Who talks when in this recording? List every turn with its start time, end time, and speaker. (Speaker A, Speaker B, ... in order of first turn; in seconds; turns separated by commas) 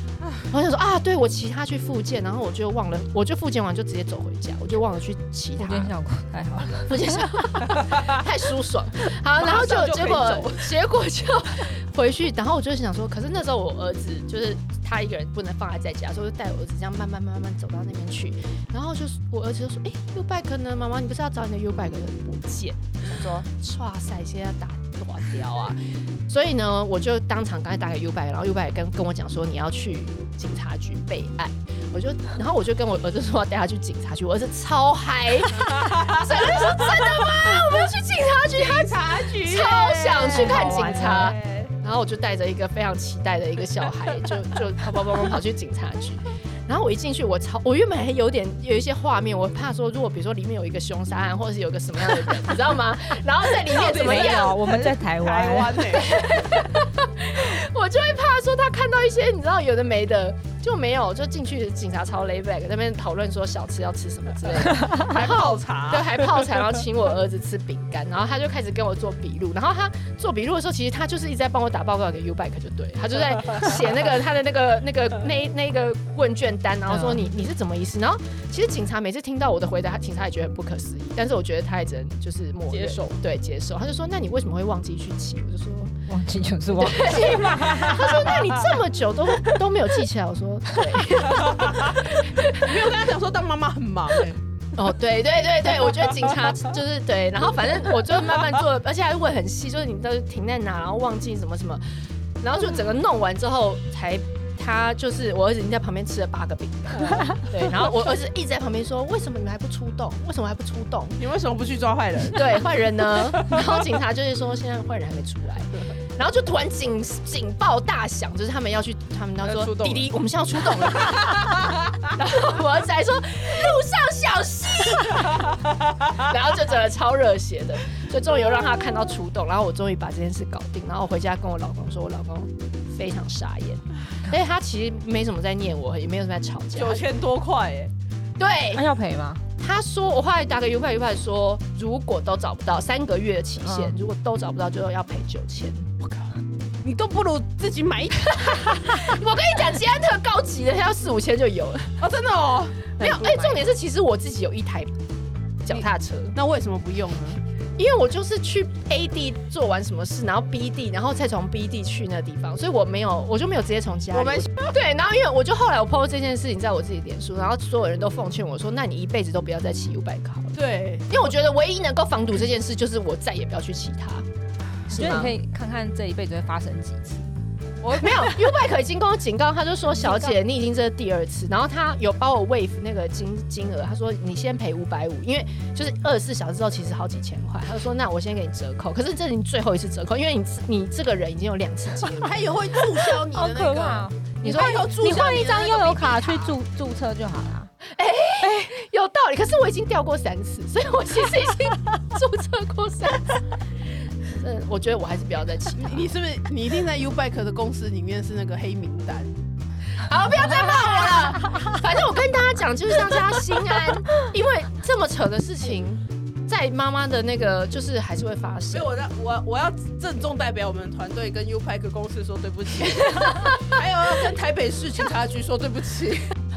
Speaker A: 0.5-5.9, Speaker B: 5.6-7.3, Speaker A: 6.9-54.6, Speaker C: 7.8-8.2, Speaker C: 9.4-10.7, Speaker C: 35.5-37.9, Speaker C: 38.5-41.7, Speaker C: 53.7-56.6, Speaker B: 53.7-56.0, Speaker A: 55.9-86.0, Speaker C: 64.6-66.7, Speaker B: 64.8-65.0, Speaker B: 76.9-77.3, Speaker C: 82.7-83.2, Speaker B: 86.1-88.5, Speaker A: 86.8-92.9, Speaker C: 87.3-88.2, Speaker C: 91.3-94.4, Speaker A: 94.8-101.8, Speaker C: 95.8-96.5, Speaker A: 102.4-111.2, Speaker C: 111.2-113.9, Speaker A: 112.3-137.1, Speaker C: 119.4-120.1, Speaker C: 120.7-122.1, Speaker C: 125.0-126.3, Speaker C: 136.8-137.9, Speaker A: 138.4-138.8, Speaker B: 138.7-139.4, Speaker A: 139.6-146.0, Speaker B: 143.6-144.0, Speaker C: 146.8-149.1, Speaker A: 148.2-152.0, Speaker C: 152.0-153.5, Speaker A: 153.0-154.9, Speaker B: 153.1-153.6, Speaker A: 155.6-156.4, Speaker C: 155.7-157.4, Speaker A: 157.8-174.3, Speaker C: 164.1-164.7, Speaker C: 170.5-171.3, Speaker A: 174.9-175.3, Speaker B: 174.9-177.3, Speaker C: 177.8-178.3, Speaker A: 178.0-192.4, Speaker B: 180.0-180.3, Speaker C: 192.0-196.3, Speaker B: 193.3-197.7, Speaker A: 194.4-196.5, Speaker A: 197.9-203.3, Speaker C: 198.4-198.7, Speaker A: 204.3-206.1, Speaker C: 205.8-209.3, Speaker A: 210.0-218.9, Speaker C: 218.7-226.3, Speaker A: 223.1-223.8